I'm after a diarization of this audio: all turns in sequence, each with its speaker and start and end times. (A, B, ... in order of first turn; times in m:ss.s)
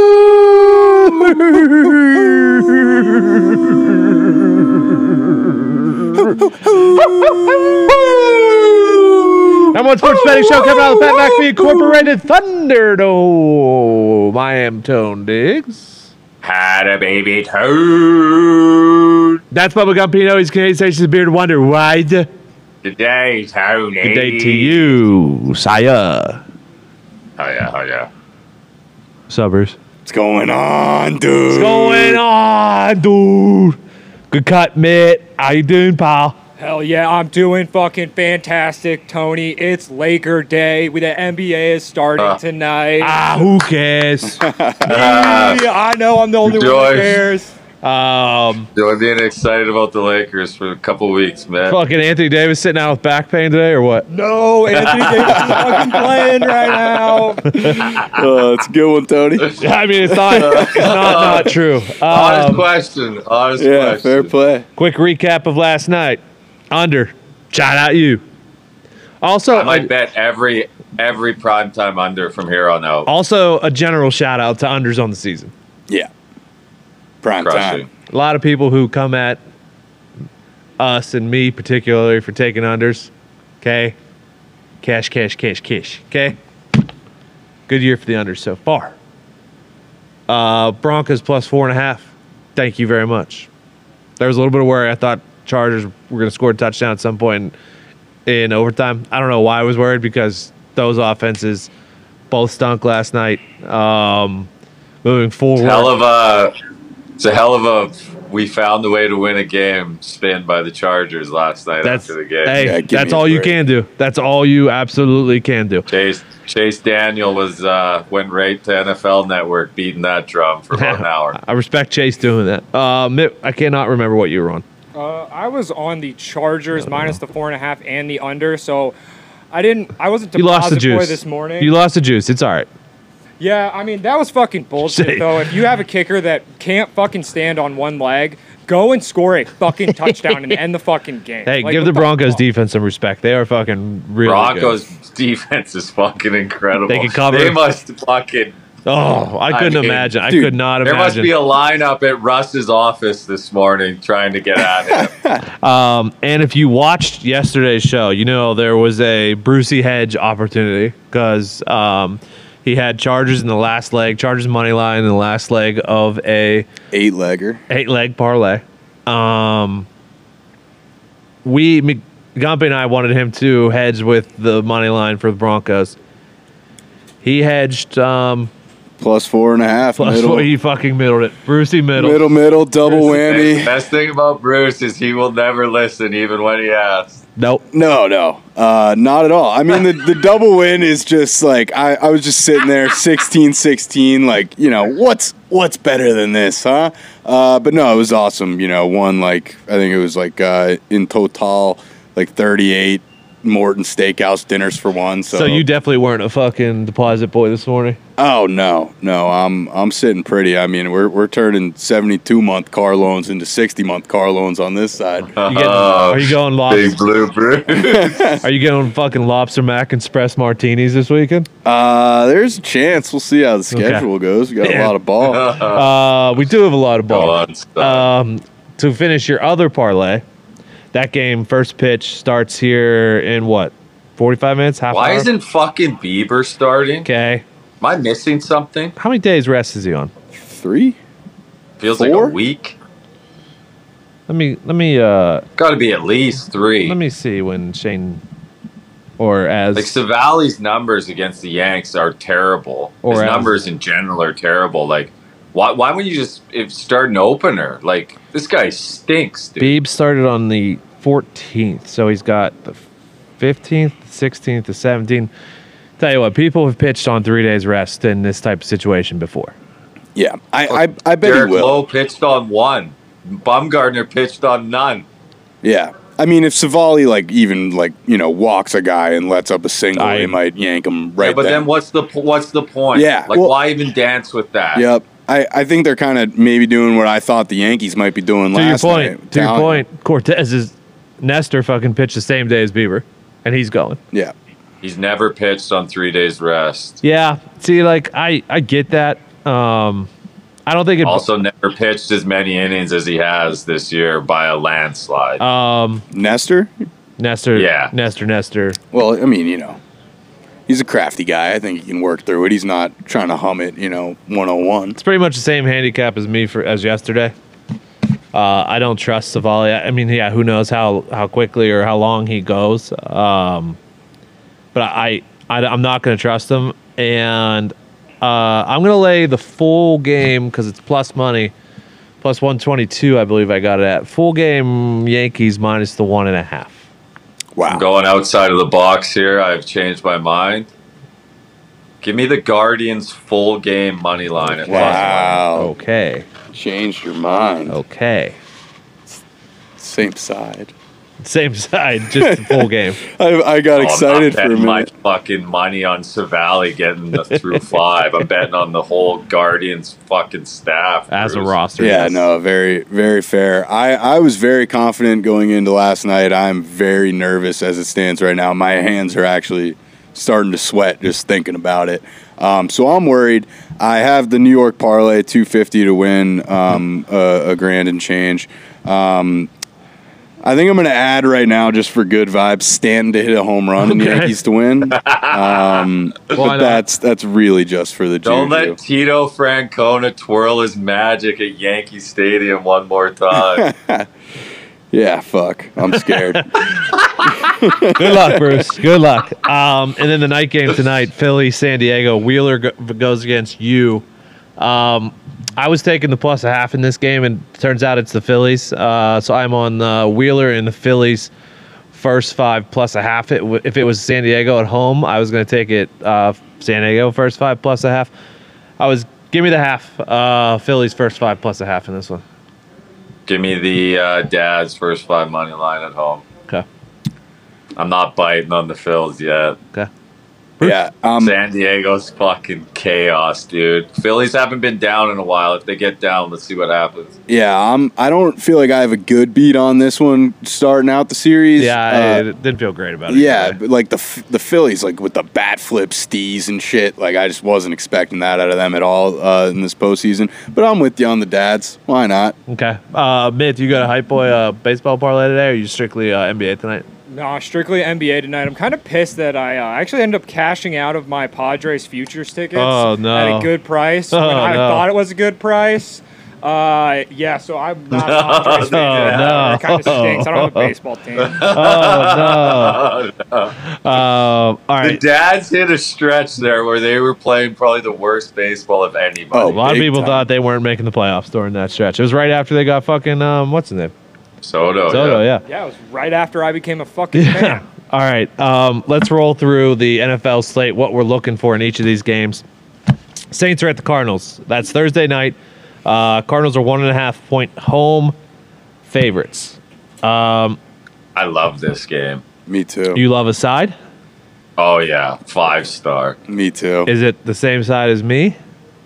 0:00.4-0:07.6 A
0:06.2-0:12.1 B
0:09.7-0:16.1 A
0:16.4-0:19.4 C
0:19.5-0:22.3 A
0:22.8-0:25.0 C
0:24.0-0:26.4 A
0:27.4-0:28.1 C
0:29.3-0:29.8 A
0:30.0-0:32.2 B
0:31.5-0:33.8 A
0:34.3-0:36.4 A
0:36.6-0:43.4 D
0:43.0-0:44.5 A
0:44.4-0:44.9 B
0:44.8-0:45.6 C
0:44.8-0:47.6 D
0:46.4-0:47.3 C
0:47.8-0:48.7 A
0:48.8-0:51.8 C
0:51.7-0:54.1 A
0:54.1-0:57.5 D
0:54.7-0:55.7 C
0:55.4-0:56.2 B
0:57.5-0:57.8 A
0:57.7-0:59.5 B
0:59.6-1:02.7 A
1:00.3-1:01.4 B
1:00.3-1:04.3 C
1:03.6-1:04.7 B
1:04.8-1:08.2 A
1:09.2-1:09.9 A
1:09.5-1:13.1 C
1:13.1-1:15.5 A
1:17.2-1:17.8 B
1:17.4-1:17.9 C
1:18.1-1:19.4 A
1:20.8-1:23.1 A
1:23.6-1:24.0 A
1:24.8-1:26.4 A
1:27.7-1:29.0 A
1:30.3-1:33.5 A
1:34.2-1:37.6 A
1:38.3-1:41.7 A
1:42.3-1:44.5 A
1:45.0-1:45.9 A
1:45.6-1:46.5 C
1:47.2-1:52.7 C
1:51.8-1:55.9 A
1:52.5-1:53.6 B
1:55.9-2:01.4 C
2:00.7-2:04.6 A
2:05.0-2:09.0 D
2:06.8-2:07.2 A
2:09.5-2:11.7 D
2:10.4-2:12.7 A
2:13.4-2:22.4 D
2:14.8-2:15.4 A
2:19.9-2:20.5 A
2:21.5-2:24.8 A
2:24.2-2:28.6 C
2:26.9-2:27.6 A
2:28.9-2:31.3 A
2:29.5-2:30.1 C
2:30.3-2:30.6 B
2:30.8-2:35.1 C
2:34.9-2:35.4 B
2:35.6-2:46.7 A
2:46.9-2:47.6 B
2:47.7-2:49.9 A
2:51.4-2:56.0 A
2:57.2-2:58.5 A
2:59.0-3:00.5 B
3:00.0-3:02.3 A
3:02.0-3:03.7 B
3:03.0-3:07.2 C
3:07.4-3:07.6 A
3:07.7-3:25.6 B
3:25.3-3:28.0 A
3:28.2-3:35.3 B
3:35.3-3:38.3 C
3:35.5-3:37.0 A
3:37.8-3:38.4 B
3:38.4-3:41.5 A
3:41.6-3:45.4 B
3:43.7-3:44.1 A
3:44.6-3:44.9 A
3:45.2-3:45.9 C
3:45.7-3:50.2 A
3:47.1-3:48.1 C
3:50.9-3:55.3 A
3:54.9-3:57.1 C
3:57.0-3:57.4 A
3:57.8-3:58.9 C
3:59.0-4:00.1 A
4:00.3-4:01.0 B
4:01.8-4:02.8 C
4:01.9-4:02.4 B
4:04.3-4:05.4 A
4:05.6-4:07.0 C
4:06.8-4:08.2 A
4:09.2-4:10.0 A
4:09.8-4:19.8 C
4:13.0-4:13.5 A
4:19.6-4:22.8 A
4:23.4-4:25.3 A
4:26.0-4:29.5 A
4:30.2-4:31.8 B
4:30.7-4:35.1 C
4:35.6-4:41.7 B
4:40.0-4:40.4 A
4:41.2-4:44.9 C
4:42.9-4:43.6 B
4:44.8-4:49.8 B
4:48.5-4:54.0 A
4:54.8-4:57.0 C
4:57.0-5:00.1 A
5:00.7-5:01.2 A
5:01.0-5:05.4 C
5:05.4-5:06.0 A
5:06.1-5:06.7 B
5:07.2-5:08.8 A
5:07.6-5:07.9 C
5:08.9-5:09.8 B
5:10.7-5:15.0 B
5:15.0-5:17.3 A
5:18.3-5:23.8 A
5:24.7-5:31.5 A
5:32.2-5:36.8 A
5:37.6-5:37.8 B
5:37.7-5:40.7 C
5:42.0-5:45.1 C
5:44.4-5:46.3 A
5:44.6-5:45.7 B
5:46.5-5:47.8 B
5:47.7-5:48.4 A
5:49.8-5:50.7 B
5:51.2-5:53.0 A
5:52.2-5:54.9 B
5:53.8-6:01.5 C
6:01.1-6:02.3 A
6:01.8-6:19.5 B
6:20.4-6:28.8 B
6:23.8-6:24.3 A
6:25.0-6:25.8 C
6:26.3-6:26.8 A
6:28.2-6:33.7 C
6:33.3-6:34.1 B
6:34.9-6:36.4 B
6:35.9-6:36.9 A
6:37.3-6:38.6 B
6:37.8-6:44.0 A
6:44.6-6:51.3 A
6:51.9-6:58.1 A
6:58.8-7:02.2 A
7:03.3-7:06.2 C
7:07.8-7:09.6 C
7:10.6-7:11.4 B
7:11.2-7:17.2 C
7:17.3-7:22.2 B
7:21.6-7:23.6 A
7:23.1-7:32.4 B
7:32.5-7:36.8 A
7:37.1-7:51.5 D
7:42.6-7:43.5 A
7:44.1-7:44.8 A
7:47.9-7:49.6 C
7:48.6-7:50.7 A
7:51.2-7:53.6 C
7:51.5-7:52.8 A
7:53.7-7:55.0 A
7:54.8-7:59.6 C
7:59.3-8:00.3 B
7:59.5-8:03.9 A
8:04.4-8:05.2 C
8:04.9-8:05.4 A
8:05.5-8:07.6 D
8:07.1-8:12.4 A
8:13.3-8:18.1 A
8:18.8-8:20.6 A
8:21.2-8:22.2 C
8:22.5-8:23.0 B
8:22.9-8:23.8 A
8:24.6-8:26.2 C
8:26.3-8:26.9 B
8:26.9-8:28.4 A